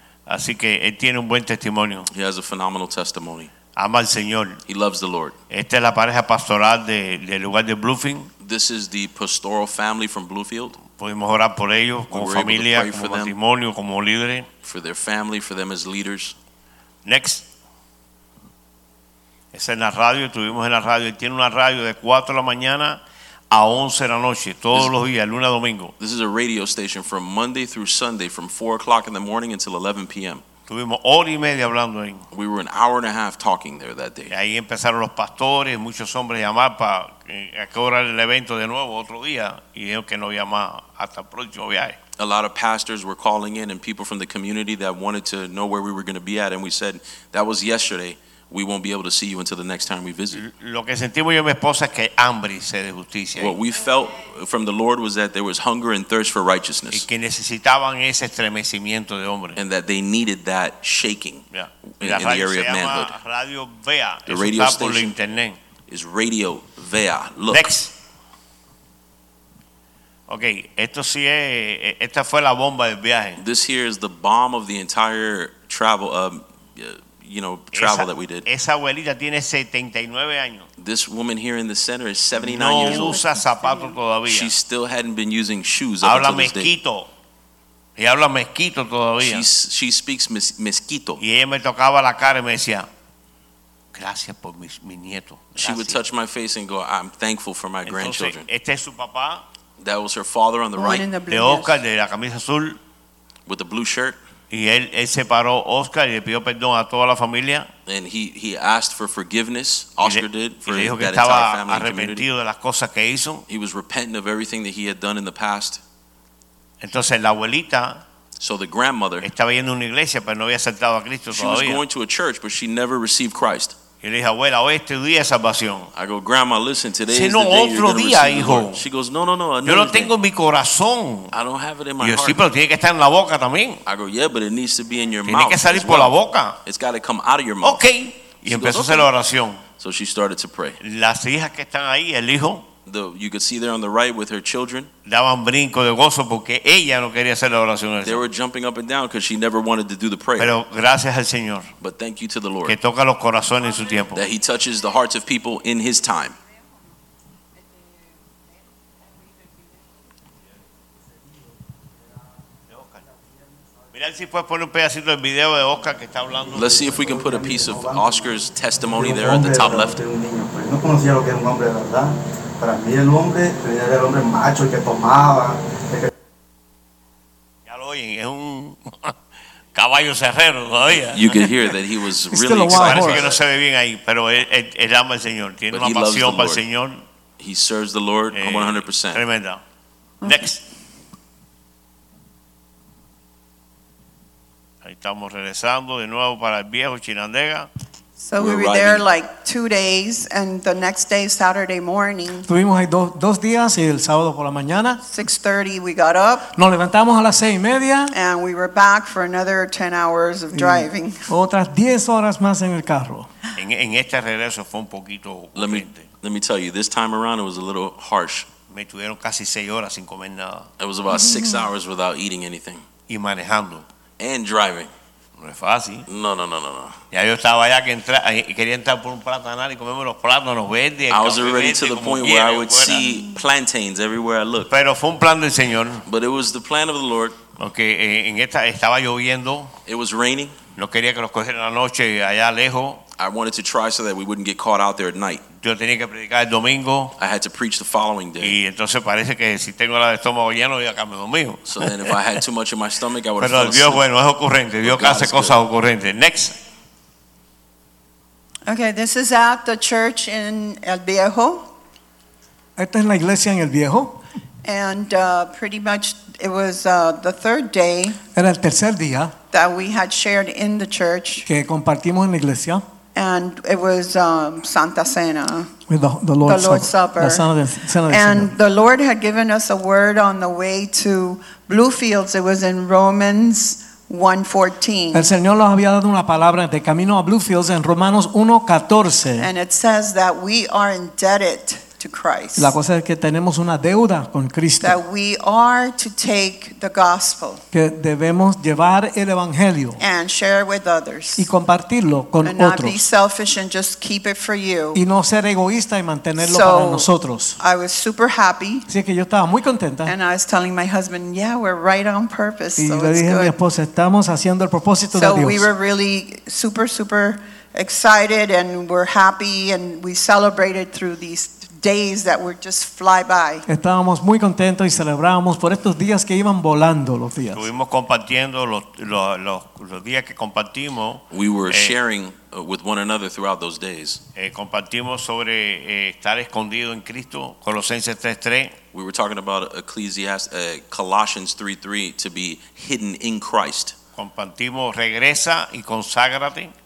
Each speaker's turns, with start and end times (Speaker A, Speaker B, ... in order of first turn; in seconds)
Speaker A: 0.3-2.1, 3.8-4.6, 5.5-8.3, 10.9-14.5, 17.1-17.4, 19.5-23.0, 23.5-25.9, 30.7-32.2, 34.3-42.0, 50.4-53.6, 56.9-59.6, 61.5-65.6, 67.5-67.9, 70.3-73.4, 77.7-80.7, 82.4-84.5, 86.0-87.1, 88.0-89.5, 91.2-92.9, 93.9-96.0, 97.9-99.4, 101.3-102.8, 104.5-107.7, 110.0-113.4, 116.8-118.0, 119.2-121.8, 124.0-125.9, 127.1-128.8, 129.7-131.3, 132.0-133.8, 135.3-136.6, 137.6-139.6, 140.8-142.7, 145.1-148.2, 150.4-151.7, 152.7-154.2, 162.7-163.0, 163.9-166.9, 177.7-179.1, 179.8-181.5, 182.7-187.0, 188.3-189.6, 190.2-190.6, 194.8-197.7, 213.6-216.1, 218.7-220.7, 223.1-223.8, 225.4-226.1, 227.1-233.1, 234.7-236.1, 237.6-239.7, 240.8-243.0, 245.6-247.2, 248.4-252.1, 253.4-256.6, 327.5-331.9, 334.4-338.8, 344.2-346.7
Speaker B: 2.1-3.5, 4.7-5.4, 8.4-10.8, 12.1-13.3, 14.6-16.4, 26.0-30.4, 32.3-34.3, 42.2-50.4, 53.4-57.0, 59.6-61.5, 62.0-63.1, 64.3-65.1, 65.9-67.7, 73.4-78.5, 80.8-83.2, 84.3-86.7, 89.2-91.2, 95.6-98.5, 99.8-101.1, 103.5-104.2, 107.9-112.2, 113.5-115.8, 118.4-119.3, 121.3-123.8, 126.0-130.1, 131.3-132.4, 133.9-137.8, 138.4-139.1, 139.8-140.8, 142.9-144.9, 148.0-150.5, 151.8-152.8, 154.2-156.4, 166.5-170.0, 181.1-183.4, 185.7-186.6, 187.4-189.2, 198.4-199.1, 215.6-218.5, 220.8-222.8, 224.2-224.9, 226.1-227.0, 231.1-234.7, 236.1-237.4, 239.9-240.6, 243.2-245.4, 247.2-248.6, 251.7-254.1, 254.8-255.6, 331.3-334.2, 338.9-343.9
Speaker C: 82.6-84.0, 100.8-101.8, 198.2-202.5, 205.0-206.5, 208.1-211.3, 221.2-221.7, 258.7-261.7, 264.6-268.2, 269.5-271.4, 273.1-275.7, 276.4-277.4, 278.1-285.3, 289.4-292.7, 294.8-297.6, 300.0-301.5, 302.4-305.0, 306.4-307.1, 307.6-308.9, 310.1-313.5, 315.1-323.7
Speaker D: 166.9-168.3, 168.9-176.1
Speaker E: 182.3-183.3, 202.5-205.0, 206.5-208.2, 210.5-213.3, 262.8-264.2, 268.3-269.4, 271.4-272.8, 275.9-278.5, 285.1-289.5, 292.6-295.0, 297.7-300.0, 301.4-303.0, 304.9-307.6, 308.9-310.1, 312.8-315.7, 323.7-327.7